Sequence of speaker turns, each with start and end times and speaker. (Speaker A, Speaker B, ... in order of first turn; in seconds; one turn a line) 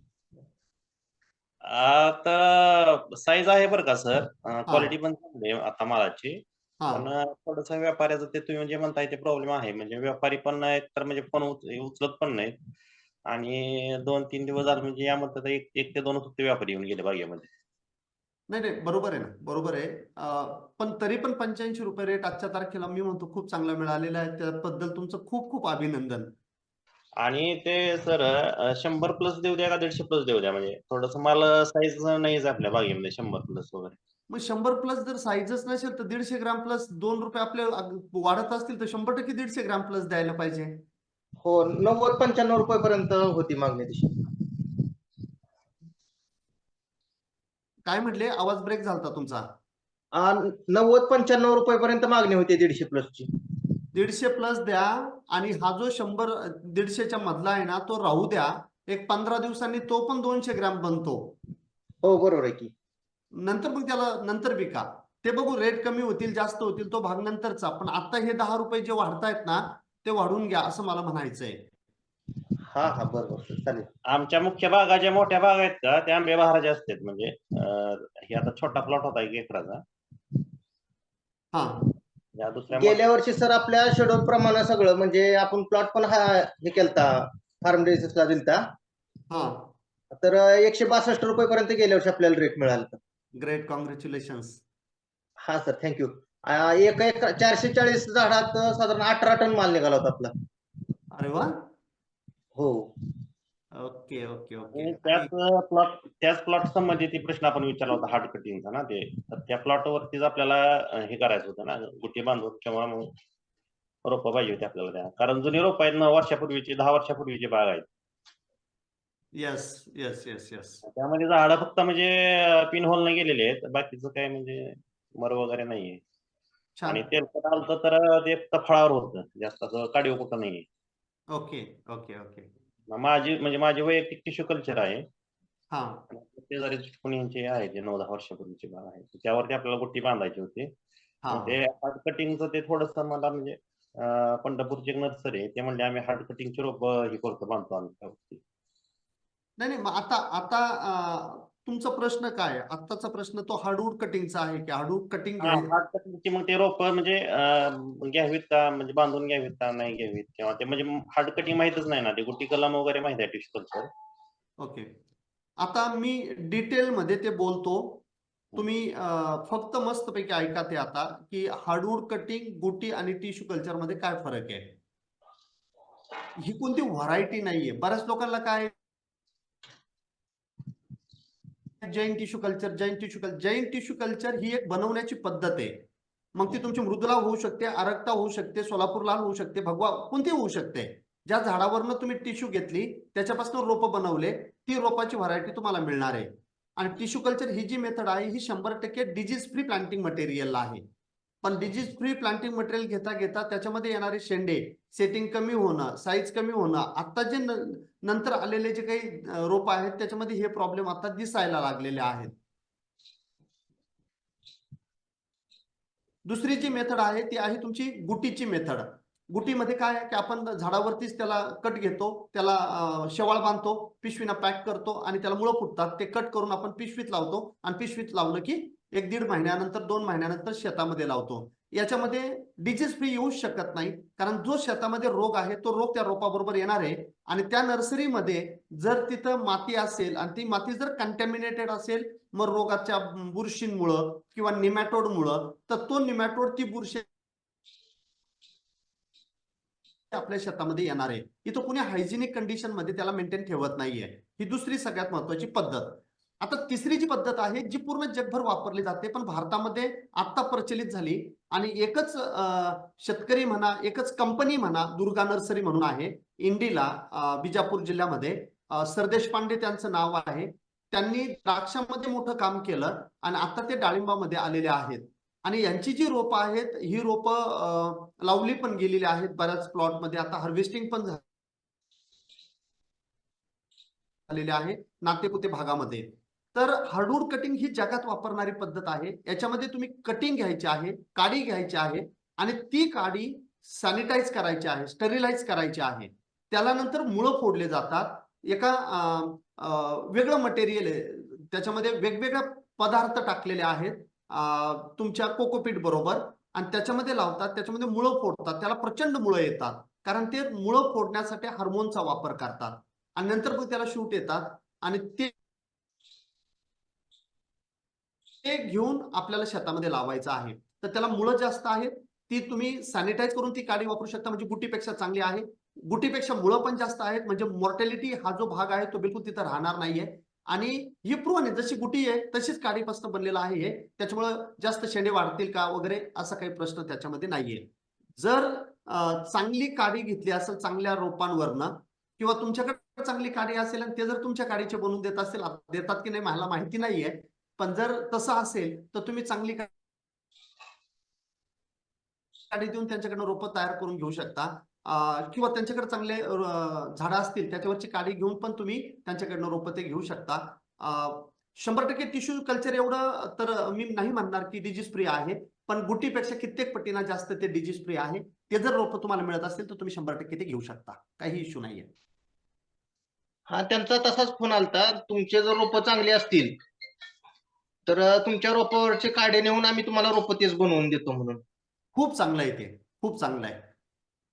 Speaker A: 1.7-12.5
Speaker B: 4.7-4.9
Speaker A: 13.3-17.5
Speaker B: 18.5-26.3
Speaker A: 27.2-34.0
Speaker B: 34.3-40.7
Speaker C: 41.4-44.4
Speaker B: 47.9-49.4
Speaker C: 50.1-53.3
Speaker B: 53.9-61.3
Speaker C: 62.0-62.7
Speaker B: 63.3-71.6
Speaker C: 72.7-73.9
Speaker A: 74.1-79.8
Speaker B: 81.5-81.8
Speaker A: 82.3-83.0
Speaker C: 82.7-88.6
Speaker B: 89.3-89.7
Speaker C: 90.1-93.0
Speaker B: 93.4-94.6
Speaker C: 95.4-100.3
Speaker B: 101.1-101.5
Speaker C: 102.5-102.9
Speaker B: 103.7-105.3
Speaker A: 104.7-113.1
Speaker A: 114.0-117.8
Speaker B: 119.3-120.8
Speaker A: 120.8-126.0
Speaker B: 126.8-127.0
Speaker A: 126.9-130.6
Speaker B: 131.3-132.5
Speaker A: 132.9-135.0
Speaker B: 135.7-136.0
Speaker A: 136.1-140.7
Speaker B: 141.2-141.6
Speaker A: 141.3-148.4
Speaker B: 149.6-155.7
Speaker A: 155.4-163.9
Speaker B: 164.6-164.9
Speaker B: 165.6-168.0
Speaker B: 168.6-174.7
Speaker B: 176.4-178.7
Speaker B: 181.8-185.8
Speaker B: 186.3-200.8
Speaker B: 201.4-212.3
Speaker B: 216.2-247.1
Speaker B: 250.1-281.2
Speaker B: 284.3-315.3
Speaker B: 318.4-349.7
Speaker B: 352.5-371.9
Speaker C: 373.5-376.5
Speaker C: 377.9-381.4
Speaker B: 381.9-383.7